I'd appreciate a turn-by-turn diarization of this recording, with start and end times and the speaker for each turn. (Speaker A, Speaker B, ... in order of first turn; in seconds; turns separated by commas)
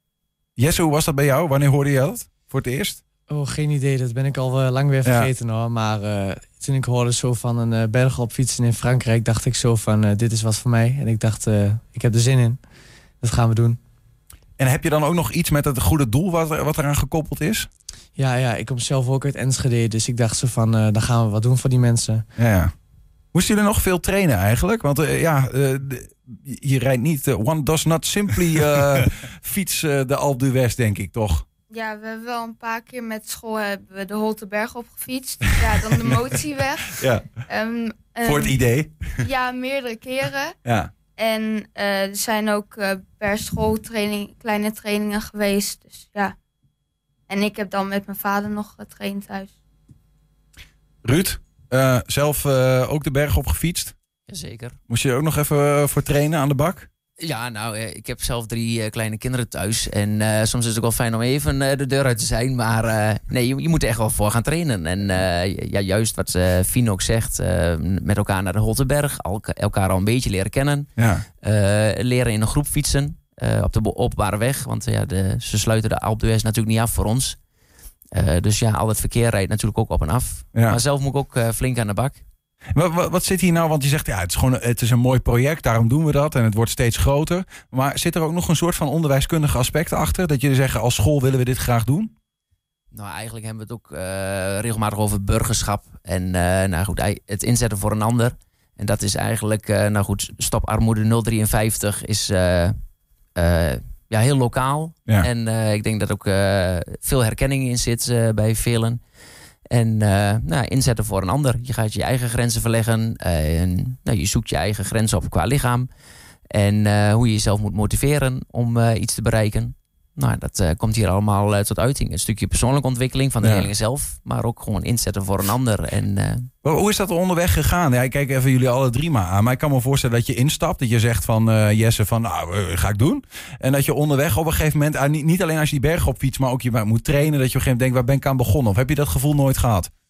Speaker A: 0.6-3.0, Speaker B: 3.3-12.6, Speaker A: 5.0-5.3, Speaker B: 13.2-13.8, Speaker A: 14.6-17.7, Speaker B: 18.2-22.2, Speaker A: 22.4-22.7, Speaker A: 23.3-31.4, Speaker C: 31.7-38.5, Speaker A: 36.9-37.3, Speaker A: 38.2-39.2, Speaker C: 39.2-40.5, Speaker A: 40.6-40.9, Speaker C: 41.2-46.3, Speaker C: 47.3-49.5, Speaker A: 51.0-53.9, Speaker D: 54.3-54.8, Speaker A: 54.9-56.9, Speaker D: 57.2-70.9, Speaker A: 71.0-71.2, Speaker D: 71.4-77.4, Speaker D: 78.1-82.2, Speaker A: 80.5-80.8, Speaker A: 82.7-92.1, Speaker D: 92.9-102.8, Speaker D: 103.3-109.0, Speaker D: 109.7-115.9, Speaker D: 116.5-126.5, Speaker A: 123.4-123.7, Speaker A: 126.6-139.9